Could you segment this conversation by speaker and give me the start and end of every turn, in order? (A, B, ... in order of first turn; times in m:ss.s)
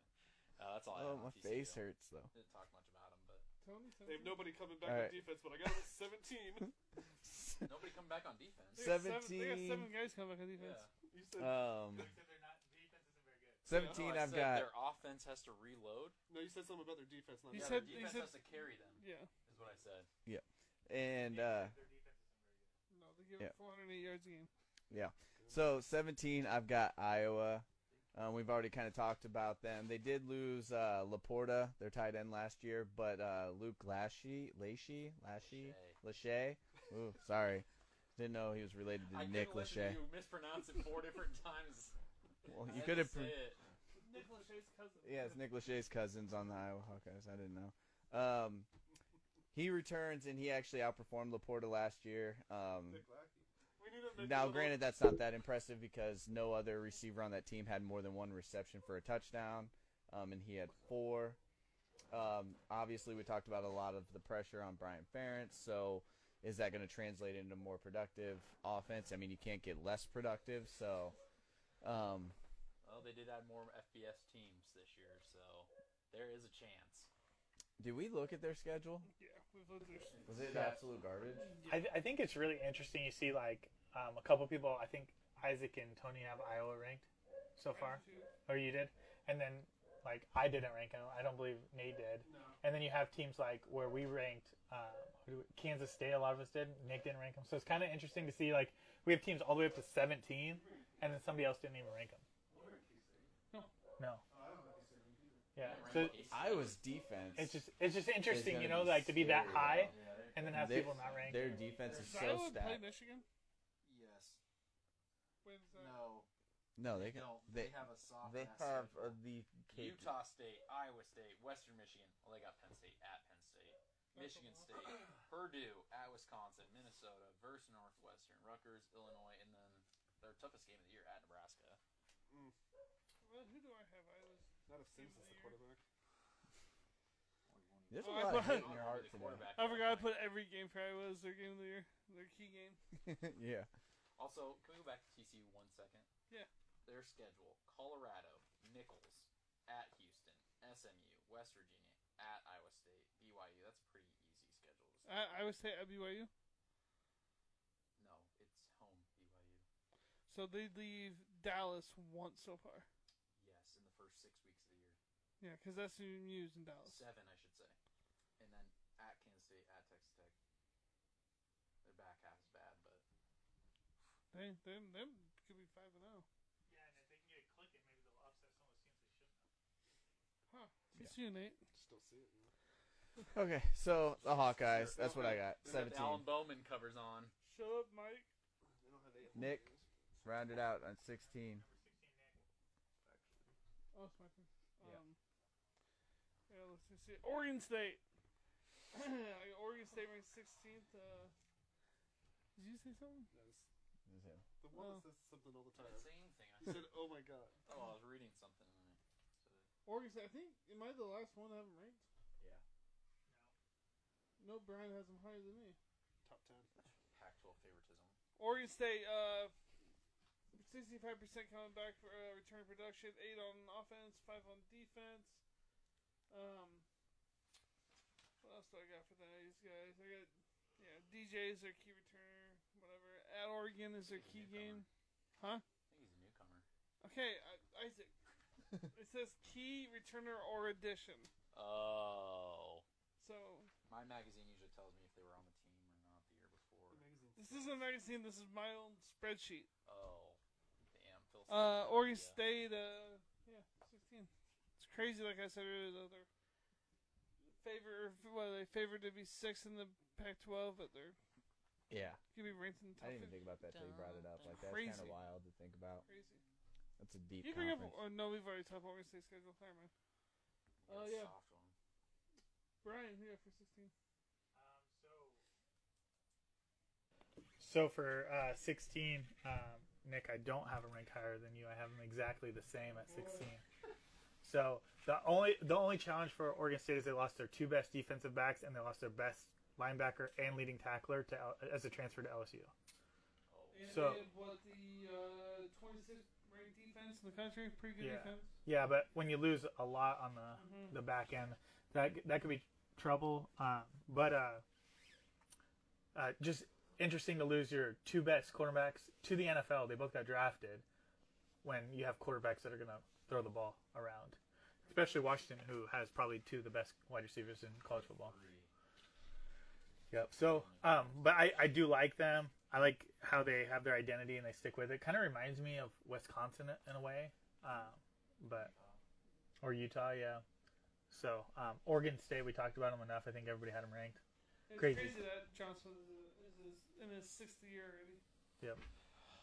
0:00.6-0:03.4 A
0:00.9-0:02.3 B
0:03.6-0:04.6 C
0:04.1-0:06.7 D
0:04.8-0:05.4 B
0:07.2-0:07.6 B
0:07.6-0:08.9 A
0:08.8-0:09.9 B
0:08.8-0:10.9 C
0:10.6-0:10.9 A
0:11.1-0:11.8 D
0:11.4-0:12.1 B
0:11.9-0:13.7 E
0:13.6-0:14.8 B
0:13.7-0:14.1 D
0:13.7-0:16.2 A
0:16.3-0:18.2 D
0:17.5-0:19.3 C
0:17.5-0:20.1 A
0:20.2-0:21.8 B
0:21.1-0:22.8 E
0:22.9-0:24.5 C
0:24.9-0:40.1 B
0:25.4-0:25.7 D
0:35.4-0:36.0 A
0:39.1-0:42.0 A
0:42.4-0:43.4 B
0:42.6-0:43.6 A
0:44.0-0:45.4 C
0:45.0-0:48.7 B
0:49.5-0:53.0 B
0:52.9-0:54.8 D
0:54.2-1:01.4 B
1:02.1-1:11.2 B
1:11.8-1:12.4 B
1:12.8-1:17.1 A
1:17.8-1:19.1 B
1:19.1-1:20.2 C
1:20.1-1:20.5 A
1:20.3-1:21.5 B
1:20.5-1:20.8 E
1:21.4-1:21.9 C
1:21.7-1:42.2 E
1:27.7-1:28.3 C
1:32.2-1:32.6 D
1:40.6-1:41.0 D
1:42.5-1:43.3 A
1:42.5-1:43.3 D
1:44.0-1:44.2 E
1:44.3-1:45.5 D
1:45.6-1:46.2 E
1:45.6-1:46.8 A
1:46.3-1:47.6 B
1:47.4-1:51.6 E
1:48.2-1:52.8 B
1:49.5-1:51.8 A
1:51.9-1:53.3 C
1:53.8-1:54.4 A
1:55.4-1:56.0 C
1:55.7-1:56.3 A
1:56.8-2:00.2 B
1:56.9-1:59.2 A
1:59.7-2:11.8 A
2:04.1-2:04.9 C
2:12.3-2:12.6 D
2:13.2-2:15.6 C
2:14.7-2:15.8 D
2:17.5-2:20.2 A
2:17.9-2:19.5 B
2:18.0-2:18.8 C
2:19.6-2:22.8 C
2:23.0-2:23.7 B
2:24.2-2:26.1 A
2:26.8-2:35.5 A
2:35.0-2:36.3 C
2:38.0-2:39.6 A
2:40.3-2:42.9 C
2:43.4-2:45.0 A
2:45.4-2:47.0 C
2:46.8-2:47.8 A
2:48.4-2:50.4 A
2:51.8-2:53.0 A
2:54.3-2:56.3 C
2:56.7-2:59.4 E
3:00.5-3:01.6 C
3:01.7-3:02.5 D
3:03.3-3:06.3 B
3:04.7-3:07.3 A
3:07.4-3:08.3 C
3:08.8-3:09.9 D
3:09.3-3:09.6 B
3:10.2-3:11.6 B
3:11.2-3:12.5 E
3:13.9-3:15.2 C
3:16.5-3:18.0 C
3:18.9-3:21.3 C
3:22.6-3:23.3 C
3:23.3-3:23.7 D
3:24.1-3:24.4 B
3:24.6-3:27.6 D
3:24.7-3:25.1 C
3:25.8-3:26.9 A
3:27.7-3:29.7 A
3:29.9-3:32.0 C
3:33.3-3:33.5 E
3:34.4-3:35.8 C
3:36.2-3:36.7 D
3:36.8-3:38.2 A
3:38.4-3:39.6 C
3:40.5-3:45.4 C
3:46.3-3:46.9 C
3:48.4-3:55.6 C
3:54.1-3:54.8 A
3:55.9-3:56.6 A
3:57.0-3:58.1 C
3:58.8-4:01.3 C
4:01.5-4:02.8 A
4:03.2-4:03.7 C
4:03.9-4:07.0 A
4:06.9-4:07.9 D
4:07.4-4:09.7 C
4:09.8-4:10.4 A
4:10.9-4:12.4 A
4:11.5-4:16.3 C
4:17.5-4:21.2 C
4:21.9-4:22.2 B
4:22.3-4:23.4 C
4:23.0-4:26.1 B
4:23.7-4:24.5 A
4:24.4-4:25.2 C
4:26.1-4:26.4 C
4:27.0-4:28.0 B
4:27.4-4:29.9 C
4:30.8-4:31.8 A
4:30.9-4:31.4 C
4:32.8-4:33.9 C
4:34.5-4:35.4 E
4:37.6-4:43.6 E
4:42.9-4:43.5 C
4:44.4-4:52.7 E
4:53.5-4:54.1 A
4:53.7-4:58.5 C
4:53.9-4:54.2 E
4:58.0-5:04.6 E
5:00.6-5:01.0 C
5:06.1-5:10.8 E
5:11.6-5:18.4 E
5:17.9-5:18.7 A
5:20.1-5:28.7 E
5:20.4-5:21.5 A
5:28.5-5:29.0 A
5:29.6-5:30.4 E
5:31.1-5:34.2 E
5:34.7-5:38.2 C
5:34.8-5:35.2 E